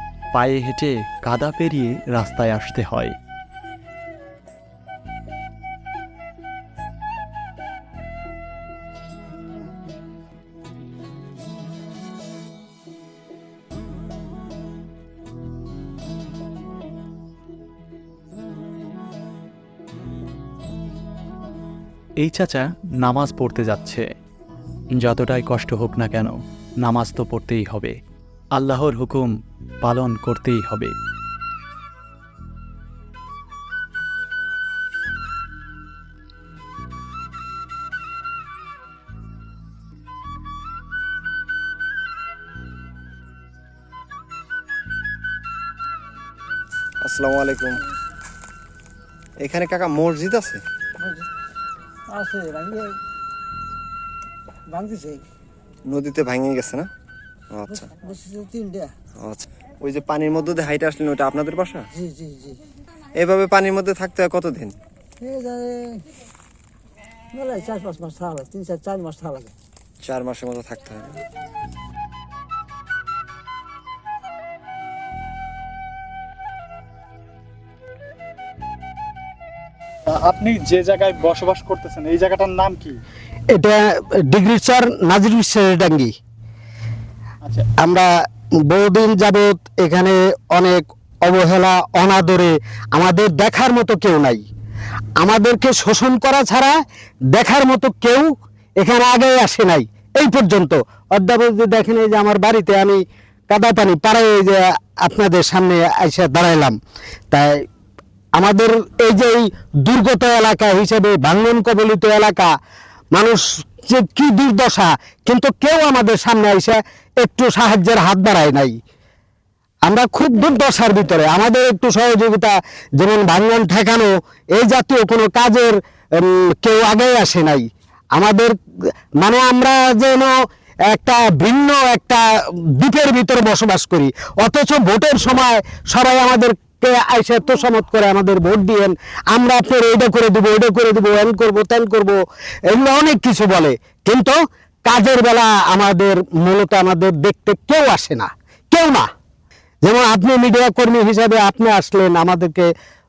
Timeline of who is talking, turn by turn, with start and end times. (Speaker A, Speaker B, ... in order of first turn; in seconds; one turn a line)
Speaker A: 0.3-3.1
Speaker A: 22.2-24.1
Speaker A: 25.0-28.0
Speaker A: 28.6-29.3
Speaker A: 29.8-30.9
Speaker B: 47.0-47.8
Speaker B: 49.4-50.6
Speaker C: 52.1-52.9
Speaker C: 54.7-55.2
Speaker B: 55.9-56.9
Speaker B: 57.5-57.9
Speaker C: 58.1-58.8
Speaker B: 59.2-61.8
Speaker B: 63.2-64.7
Speaker C: 65.2-65.9
Speaker C: 67.3-69.5
Speaker B: 70.0-71.2
Speaker D: 80.1-83.0
Speaker E: 83.5-86.1
Speaker E: 87.8-88.1
Speaker E: 88.7-94.4
Speaker E: 95.2-96.8
Speaker E: 97.3-106.8
Speaker E: 107.3-107.6
Speaker E: 108.4-112.5
Speaker E: 113.1-118.8
Speaker E: 119.9-128.6
Speaker E: 129.2-130.3
Speaker E: 130.9-149.1
Speaker E: 149.8-152.7